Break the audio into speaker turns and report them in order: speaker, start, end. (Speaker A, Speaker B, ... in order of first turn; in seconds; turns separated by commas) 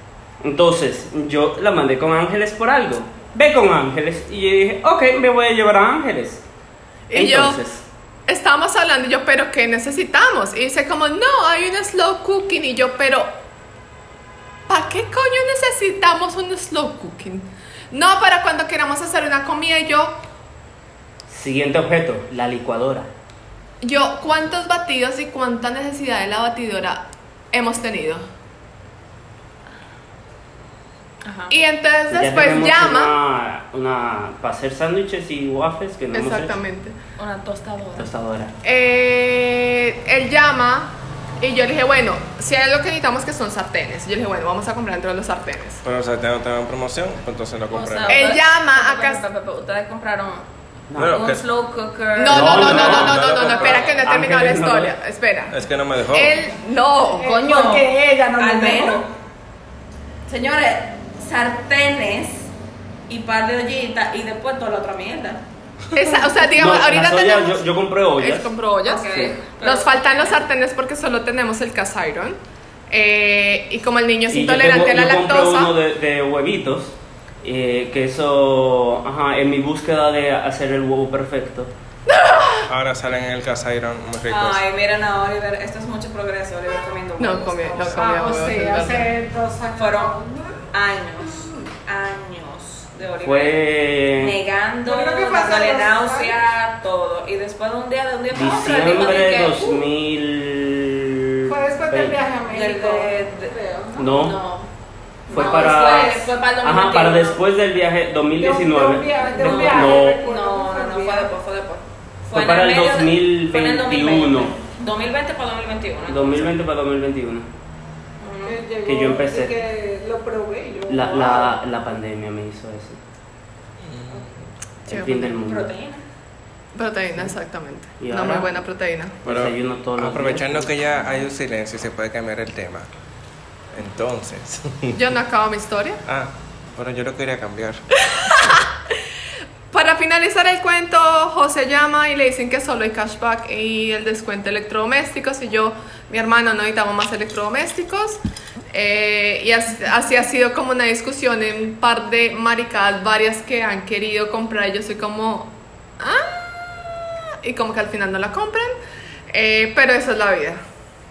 Speaker A: 0.4-6.4, Speaker B: 7.1-7.6, Speaker A: 7.1-7.8, Speaker B: 8.3-13.3, Speaker B: 14.7-20.1, Speaker A: 21.3-23.1, Speaker B: 23.8-28.2, Speaker C: 31.2-31.6, Speaker B: 31.5-33.1, Speaker A: 32.1-36.5, Speaker B: 36.1-37.0, Speaker C: 37.2-38.1, Speaker A: 38.0-38.5, Speaker B: 38.6-45.8, Speaker D: 45.8-48.4, Speaker C: 47.7-50.5, Speaker B: 48.1-49.2, Speaker A: 50.9-51.2, Speaker D: 51.0-51.4, Speaker C: 51.1-54.0, Speaker B: 52.1-55.5, Speaker A: 52.3-53.2, Speaker D: 52.7-54.0, Speaker A: 54.0-54.9, Speaker D: 55.5-56.4, Speaker B: 56.1-57.3, Speaker E: 57.2-59.1, Speaker C: 57.2-59.1, Speaker C: 60.3-62.5, Speaker C: 63.1-65.4, Speaker B: 65.9-72.4, Speaker A: 66.5-68.5, Speaker C: 68.8-70.4, Speaker A: 69.1-69.4, Speaker B: 72.9-75.7, Speaker A: 74.3-81.7, Speaker B: 82.1-82.7, Speaker D: 82.7-84.6, Speaker C: 84.3-88.2, Speaker B: 87.2-89.1, Speaker E: 87.9-90.7, Speaker C: 89.7-90.2, Speaker C: 90.7-93.6, Speaker A: 93.2-94.3, Speaker C: 94.1-99.8, Speaker E: 94.8-96.4, Speaker A: 98.3-102.2, Speaker E: 101.5-104.1, Speaker C: 102.5-103.5, Speaker A: 104.0-104.4, Speaker C: 104.2-104.7, Speaker C: 105.3-107.4, Speaker A: 105.3-110.2, Speaker E: 105.3-106.3, Speaker E: 108.4-111.3, Speaker C: 109.4-116.5, Speaker A: 112.3-114.5, Speaker A: 116.1-117.5, Speaker C: 118.2-118.6, Speaker E: 118.4-121.6, Speaker A: 118.8-119.6, Speaker A: 120.9-123.0, Speaker D: 123.8-124.5, Speaker A: 124.8-125.7, Speaker B: 124.9-125.3, Speaker C: 125.4-126.0, Speaker B: 126.7-129.2, Speaker A: 128.0-128.6, Speaker D: 129.2-132.9, Speaker A: 129.2-130.8, Speaker D: 133.7-135.1, Speaker B: 134.9-136.0, Speaker D: 136.1-137.8, Speaker B: 138.0-139.0, Speaker B: 139.7-148.2, Speaker B: 148.7-158.7, Speaker B: 159.3-160.6